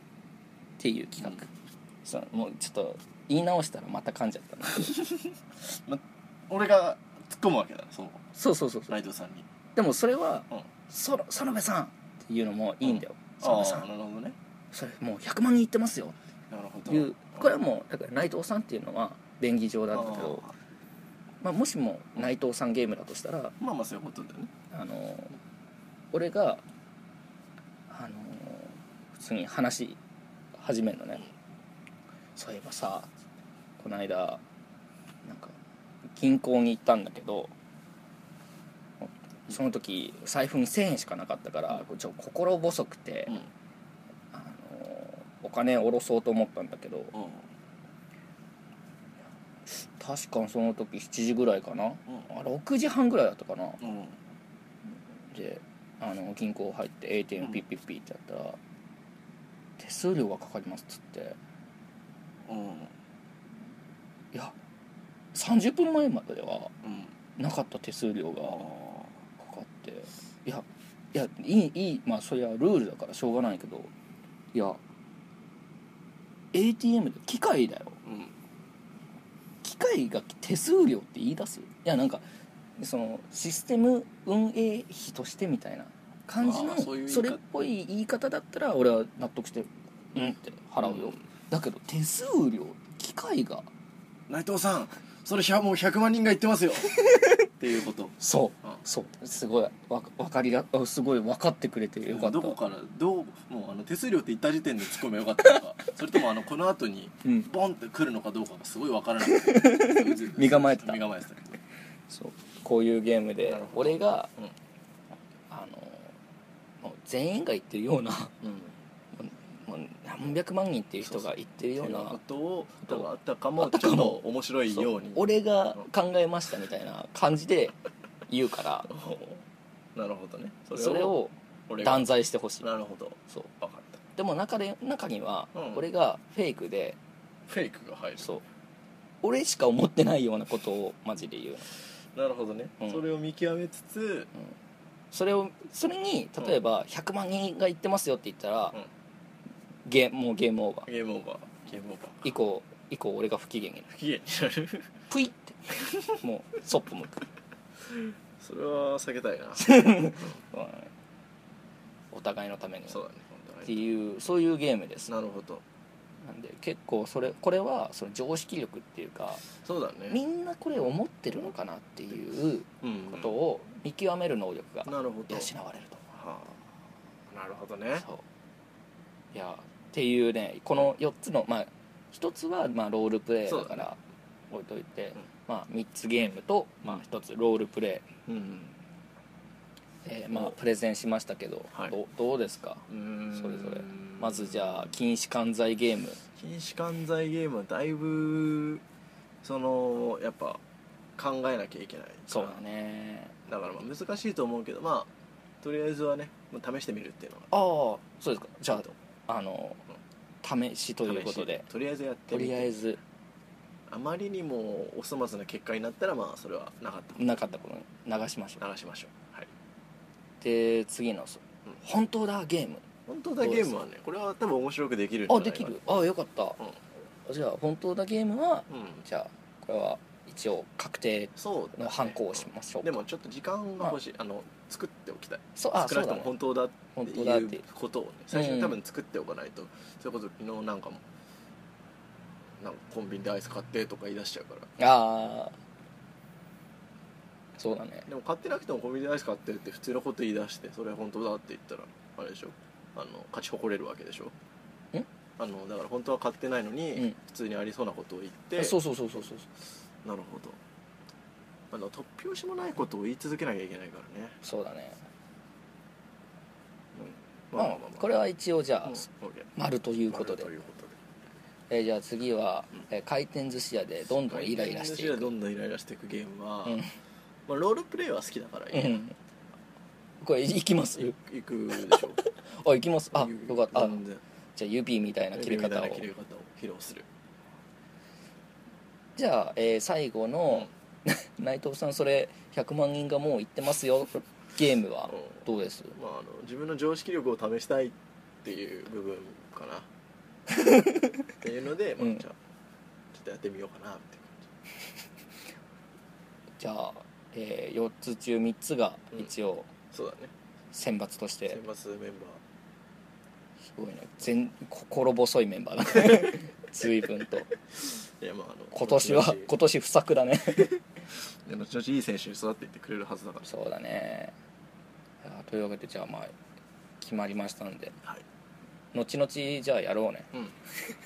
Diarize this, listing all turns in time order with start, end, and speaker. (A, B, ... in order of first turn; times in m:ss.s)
0:00.8-0:01.5 A
0:02.0-0:05.1 A
0:05.6-0:08.2 B
0:08.3-0:09.0 A
0:08.9-0:09.5 B
0:09.7-0:13.8 A
0:12.8-0:14.4 B
0:14.7-0:16.2 A
0:16.5-0:17.5 B
0:16.9-0:20.4 A
0:19.9-0:20.5 B
0:21.4-0:23.6 A
0:23.6-0:24.5 B
0:24.7-0:25.4 A
0:26.1-0:26.6 A
0:27.9-0:30.0 A
0:30.6-0:31.2 A
0:32.4-0:33.1 A
0:33.8-0:34.4 A
0:35.2-0:35.6 A
0:36.2-0:37.5 A
0:39.0-0:43.4 A
0:44.3-0:47.2 A
0:47.1-0:47.4 B
0:49.7-0:53.8 A
0:53.8-0:54.2 B
0:55.3-0:58.6 A
0:59.8-1:01.4 A
1:02.4-1:02.9 B
1:05.3-1:06.7 A
1:06.8-1:07.1 B
1:07.4-1:08.7 A
1:08.5-1:09.1 B
1:09.4-1:13.9 A
1:14.5-1:14.8 A
1:16.5-1:18.0 A
1:18.0-1:18.3 B
1:19.6-1:22.2 A
1:22.8-1:33.7 A
1:26.4-1:27.4 B
1:30.8-1:31.1 B
1:34.3-1:38.2 B
1:36.9-1:37.5 A
1:38.2-1:42.6 A
1:42.1-1:51.6 B
1:47.2-1:47.5 A
1:49.2-1:51.1 A
1:52.1-1:54.3 A
1:53.4-1:54.5 B
1:55.5-1:56.1 A
1:56.8-1:58.4 A
1:58.4-1:58.7 B
1:59.1-2:02.2 A
2:01.8-2:05.8 B
2:02.8-2:08.9 A
2:08.9-2:09.4 B
2:09.9-2:11.2 B
2:10.7-2:12.7 A
2:11.7-2:12.1 B
2:12.6-2:14.0 B
2:14.2-2:17.0 A
2:15.5-2:15.8 B
2:17.5-2:18.3 B
2:19.2-2:21.7 A
2:22.1-2:24.3 B
2:25.1-2:28.8 A
2:29.8-2:30.9 A
2:30.8-2:32.3 B
2:32.2-2:33.9 A
2:33.9-2:34.9 B
2:35.1-2:37.2 A
2:35.8-2:36.1 B
2:37.9-2:40.3 B
2:39.6-2:40.9 A
2:42.1-2:43.0 A
2:42.9-2:43.8 B
2:43.6-2:45.1 A
2:45.1-2:45.6 B
2:46.2-2:49.4 A
2:49.6-2:50.2 B
2:50.1-2:56.1 A
2:52.8-2:53.4 B
2:54.8-2:55.5 B
2:56.1-2:56.5 B
2:57.3-2:58.0 B
2:58.0-2:58.2 A
2:59.3-3:04.0 A
3:03.5-3:03.9 B
3:04.5-3:08.1 A
3:08.3-3:08.8 B
3:10.0-3:16.2 A
3:12.9-3:14.9 B
3:16.4-3:18.8 B
3:19.4-3:20.6 B
3:21.2-3:22.6 B
3:22.3-3:23.4 A
3:23.5-3:25.1 B
3:25.6-3:27.5 B
3:27.5-3:29.8 A
3:30.4-3:31.6 A
3:31.0-3:32.7 B
3:32.3-3:33.0 A
3:33.9-3:37.4 B
3:37.2-3:38.6 A
3:38.6-3:39.5 B
3:40.4-3:42.8 A
3:43.1-3:46.8 B
3:43.4-3:43.8 A
3:45.3-3:46.6 A
3:47.2-3:53.0 A
3:48.7-3:49.0 B
3:51.4-4:01.0 B
3:55.6-3:56.3 A
3:56.9-3:57.6 A
3:58.3-3:58.8 A
4:02.6-4:04.7 B
4:04.8-4:05.5 A
4:07.6-4:08.1 A
4:08.1-4:14.3 B
4:15.4-4:18.8 B
4:18.6-4:19.5 A
4:20.0-4:20.6 B
4:21.7-4:24.4 B
4:24.4-4:25.0 A
4:26.9-4:28.1 B
4:27.5-4:30.5 A
4:28.8-4:29.5 B
4:30.1-4:31.0 B
4:31.7-4:35.3 A
4:34.2-4:36.8 B
4:36.6-4:36.9 A
4:37.5-4:39.0 B
4:38.7-4:39.1 A
4:40.2-4:41.2 A
4:41.0-4:42.2 B
4:41.9-4:44.0 A
4:43.1-4:44.2 B
4:44.6-4:46.0 A
4:45.3-4:47.1 B
4:49.2-4:56.0 A
4:55.9-4:59.9 B
5:00.5-5:01.3 A
5:01.4-5:02.4 B
5:03.1-5:04.5 B
5:06.6-5:09.7 A
5:09.9-5:10.3 B
5:10.7-5:11.6 A
5:11.5-5:12.4 B
5:13.7-5:17.5 A
5:18.2-5:19.5 B
5:18.7-5:20.8 A
5:21.4-5:23.5 B
5:23.4-5:24.3 A
5:25.2-5:26.3 A
5:27.0-5:28.0 A
5:28.9-5:30.3 A